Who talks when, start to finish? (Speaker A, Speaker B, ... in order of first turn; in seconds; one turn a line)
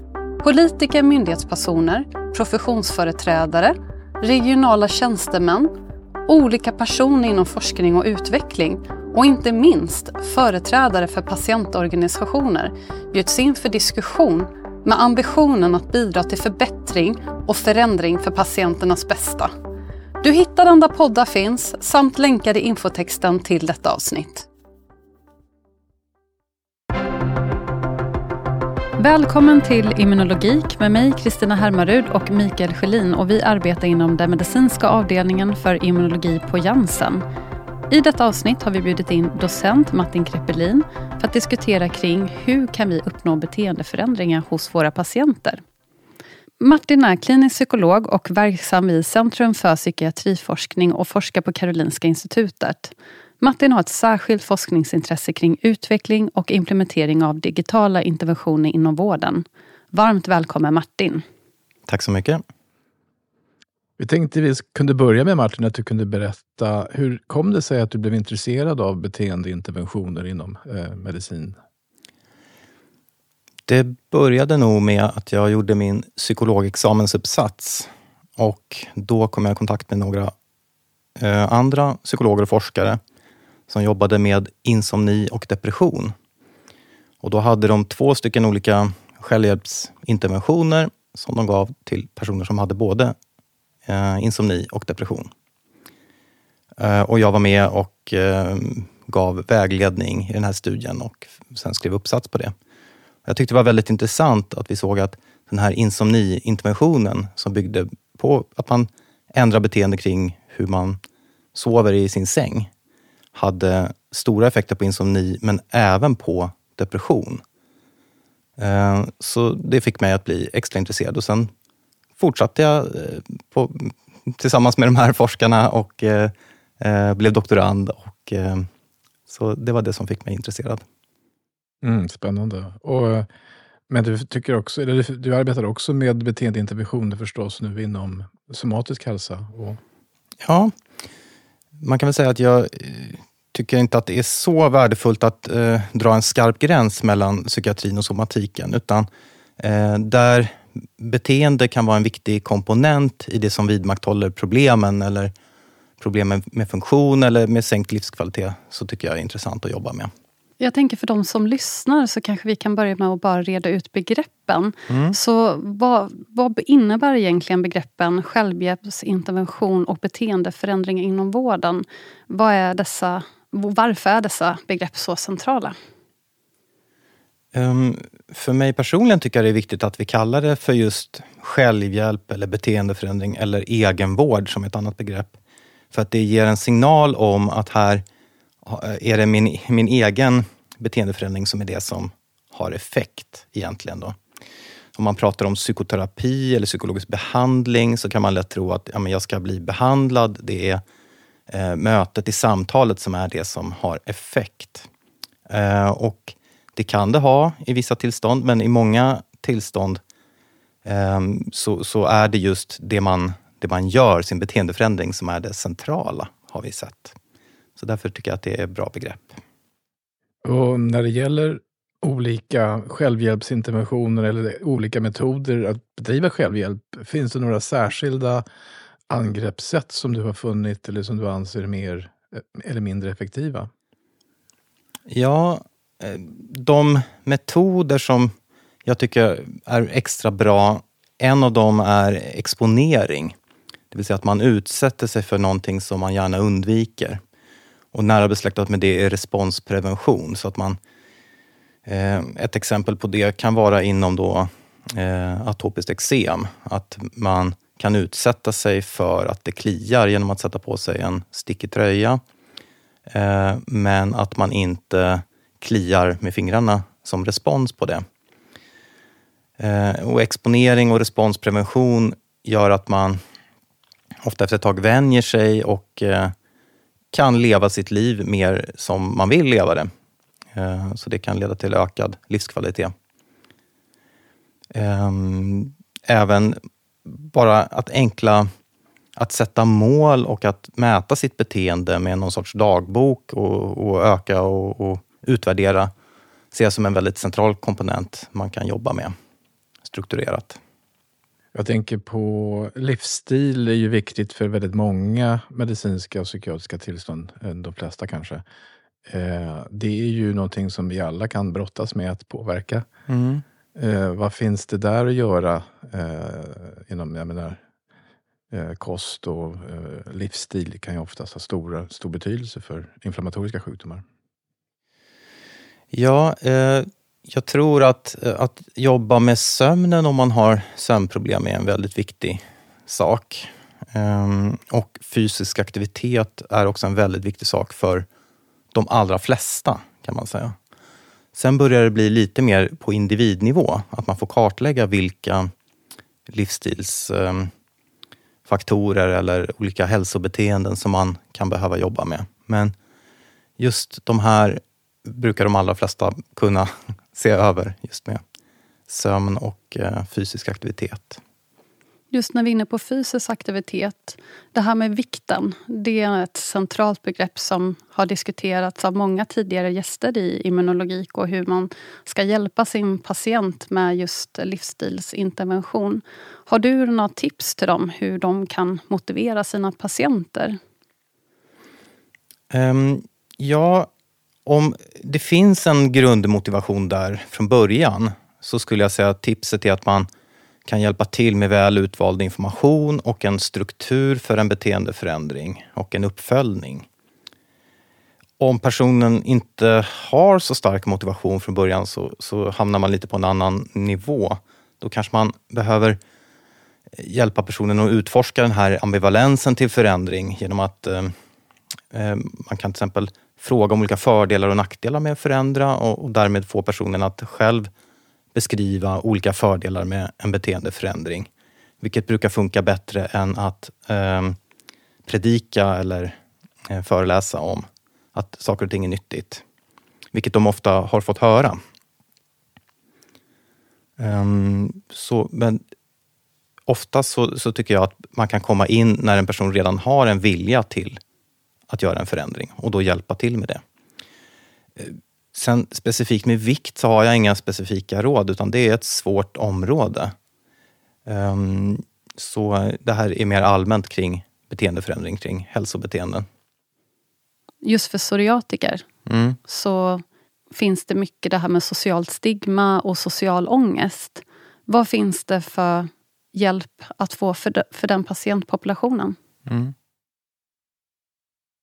Speaker A: 0.4-5.7
Speaker A: 6.3-19.5
Speaker A: 20.2-24.5
Speaker A: 29.0-37.2
Speaker A: 37.9-45.6
Speaker A: 46.6-61.2
Speaker B: 61.9-62.4
Speaker C: 64.0-71.6
Speaker B: 73.7-80.3
Speaker B: 81.2-83.0
Speaker B: 83.7-86.2
Speaker B: 87.2-93.2
Speaker B: 93.9-95.3
Speaker B: 96.8-102.5
Speaker B: 103.3-111.0
Speaker B: 111.5-112.7
Speaker B: 113.3-117.4
Speaker B: 118.6-121.5
Speaker B: 122.2-128.7
Speaker B: 129.3-130.8
Speaker C: 131.8-133.3
Speaker C: 133.9-139.8
Speaker B: 140.4-140.7
Speaker B: 141.8-149.1
Speaker B: 149.6-155.3
Speaker B: 156.0-160.1
Speaker A: 160.6-175.8
Speaker B: 164.9-165.2
Speaker B: 177.5-185.4
Speaker B: 185.9-188.0
Speaker B: 188.7-194.2
Speaker B: 194.9-200.8
Speaker B: 201.5-204.9
Speaker B: 205.5-210.0
Speaker B: 210.8-217.2
Speaker B: 217.8-219.4
Speaker C: 220.4-228.4
Speaker C: 229.1-233.7
Speaker B: 235.1-238.3
Speaker B: 238.8-243.4
Speaker B: 243.9-247.2
Speaker B: 247.9-250.8
Speaker B: 251.9-262.2
Speaker B: 263.1-268.0
Speaker B: 269.6-273.2
Speaker B: 274.2-276.4
Speaker B: 277.1-279.9
Speaker B: 280.5-282.9
Speaker B: 284.7-288.5
Speaker B: 289.2-295.9
Speaker B: 296.5-299.1
Speaker B: 299.9-300.6
Speaker C: 301.5-308.4
Speaker C: 309.1-312.9
Speaker B: 313.1-313.4
Speaker C: 313.8-317.6
Speaker C: 318.5-324.0
Speaker B: 325.9-338.1
Speaker B: 338.7-340.6
Speaker B: 341.3-345.5
Speaker B: 346.3-347.5
Speaker B: 348.5-352.7
Speaker B: 353.6-358.2
Speaker B: 358.9-361.2
Speaker A: 362.1-380.6
Speaker B: 382.5-383.9
Speaker B: 384.4-390.1
Speaker B: 390.7-396.9
Speaker B: 398.4-406.0
Speaker B: 407.0-411.1
Speaker B: 411.9-417.7
Speaker B: 418.3-421.3
Speaker B: 421.8-424.4
Speaker B: 425.1-426.2
Speaker B: 426.7-429.4
Speaker B: 430.1-431.6
Speaker B: 434.0-435.6
Speaker B: 436.7-441.0
Speaker B: 441.7-443.6
Speaker B: 444.8-450.1
Speaker B: 451.1-456.3
Speaker A: 457.6-458.9
Speaker B: 459.1-459.4
Speaker A: 459.5-469.2
Speaker B: 469.5-469.7